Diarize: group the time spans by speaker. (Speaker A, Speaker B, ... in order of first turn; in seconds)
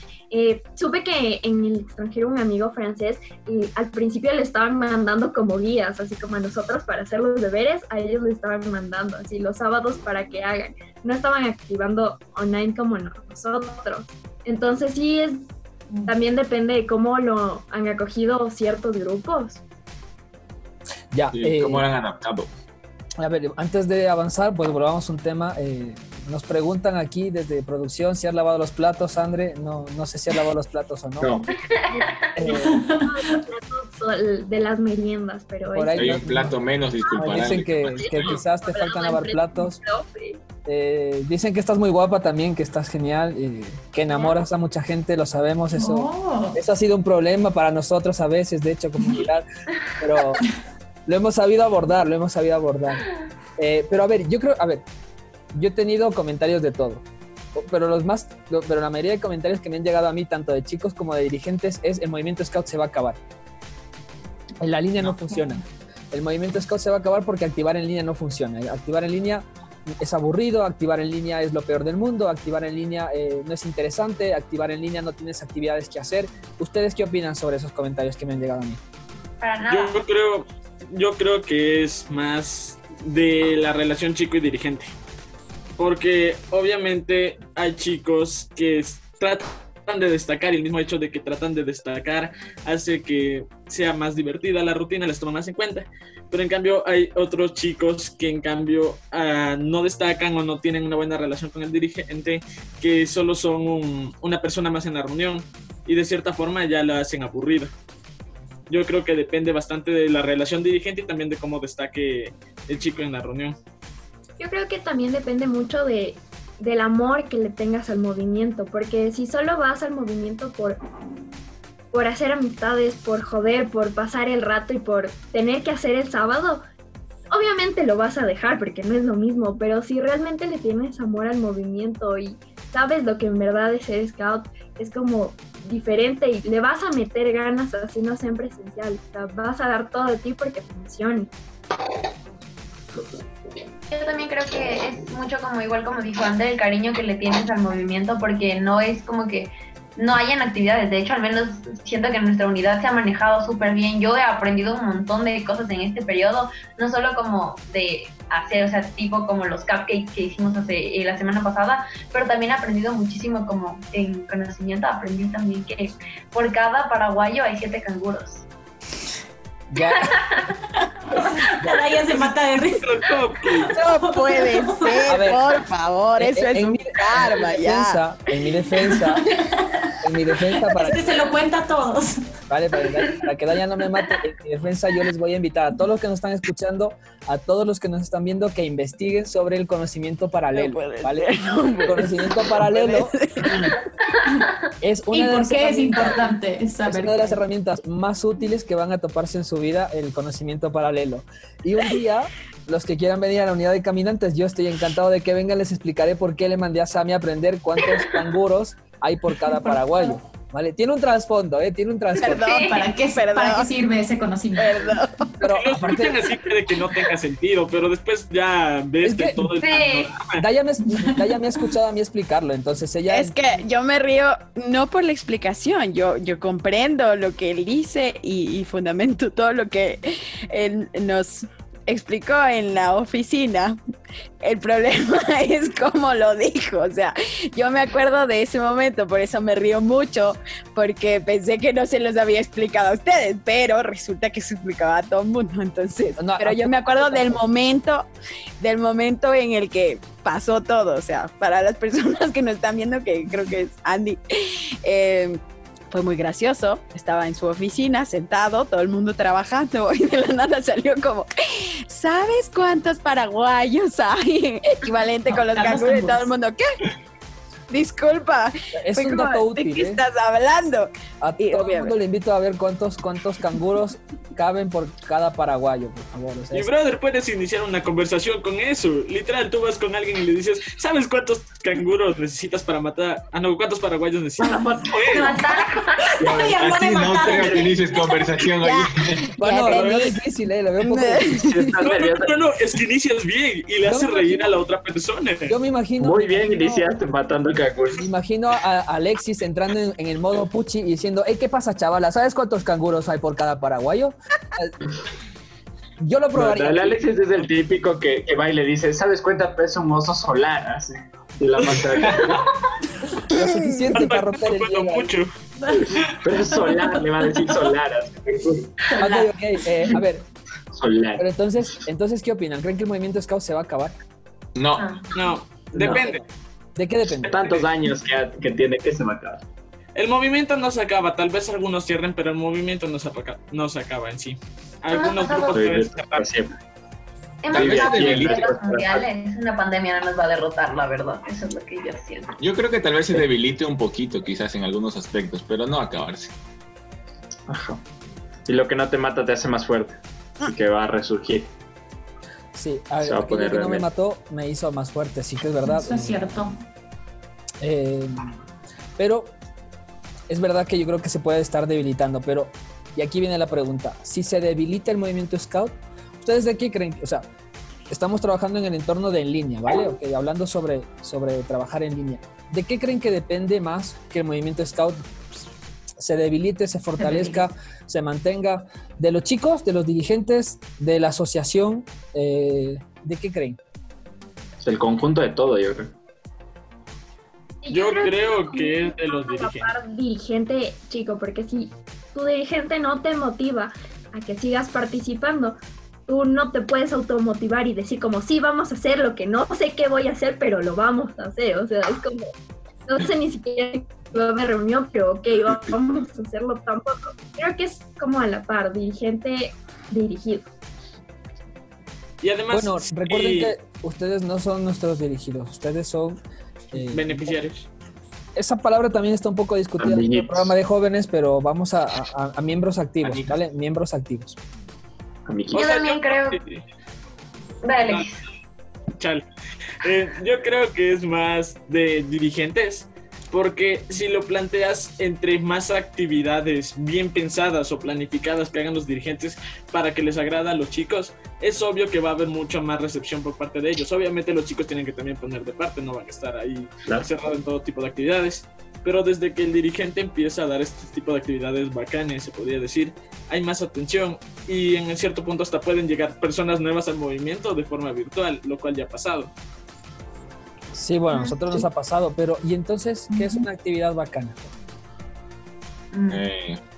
Speaker A: 0.3-15.4, 16.1-19.6, 31.9-36.1, 38.1-40.4, 114.4-120.8, 121.9-126.6, 127.3-141.3, 387.6-402.3, 402.9-410.4
Speaker B: 21.1-21.9, 23.2-31.5, 32.4-32.9, 35.7-36.6, 37.2-39.8, 40.6-49.5, 50.0-50.5, 51.1-54.8, 55.5-57.0, 57.6-63.2, 64.6-78.8, 169.7-170.2, 171.6-171.9, 175.1-175.4, 176.2-179.2, 180.0-181.0, 182.5-193.6, 194.8-196.3, 196.8-212.6, 215.4-216.4, 219.0-219.5, 220.4-223.4, 246.2-247.4, 268.8-270.0, 271.2-276.7, 289.4-291.6, 293.9-294.6, 295.5-296.9, 297.9-304.8, 306.0-307.0, 313.3-315.2, 319.0-320.2, 321.2-324.0, 326.8-327.5, 352.5-356.3, 357.6-358.4, 359.0-359.3, 360.3-367.3, 367.9-375.0, 376.0-383.6, 412.5-416.2, 416.7-417.3, 418.4-424.4, 460.7-464.5
Speaker C: 21.3-22.5, 36.0-38.4, 286.6-289.2, 324.6-324.9, 337.5-338.5, 342.4-346.3, 423.0-423.4, 466.1-466.6
Speaker D: 31.2-31.5, 284.6-285.3, 286.2-286.6, 291.5-292.3, 296.0-298.0, 306.4-312.4, 316.2-318.7, 320.7-321.2, 325.7-326.1, 327.2-329.4, 335.5-336.5, 337.5-339.1, 347.5-347.8, 348.5-351.5, 353.0-353.9, 384.6-385.9, 419.8-420.5, 425.3-425.7
Speaker E: 31.7-32.5, 79.4-80.0, 143.9-168.5, 169.8-170.4, 212.3-212.9, 219.6-220.1, 285.3-286.4, 324.8-325.1, 334.9-335.6, 337.4-342.4, 425.5-426.4, 427.6-428.2, 465.9-466.2
Speaker F: 32.6-33.4, 45.7-46.6, 65.2-65.6, 171.1-175.3, 178.8-179.6, 180.6-182.2, 195.1-197.4, 212.3-215.0, 265.3-266.3, 284.4-288.2, 316.4-317.7, 319.0-319.3, 355.6-356.6, 377.0-377.5, 463.1-463.4
Speaker G: 79.7-84.9, 85.8-107.7, 108.7-113.6, 172.8-173.7, 215.4-220.5, 276.5-285.4, 289.7-290.0, 291.8-295.6, 311.6-312.2, 313.9-315.3, 325.1-326.2, 330.0-336.2, 387.7-389.7, 412.2-413.5, 416.7-417.7, 425.5-426.6, 429.0-429.2, 429.8-459.3
Speaker H: 173.7-178.0, 190.5-193.8, 212.2-213.7, 214.6-215.1, 223.1-233.8, 234.4-248.1, 248.6-266.7, 267.7-271.9, 288.6-290.2, 290.8-292.1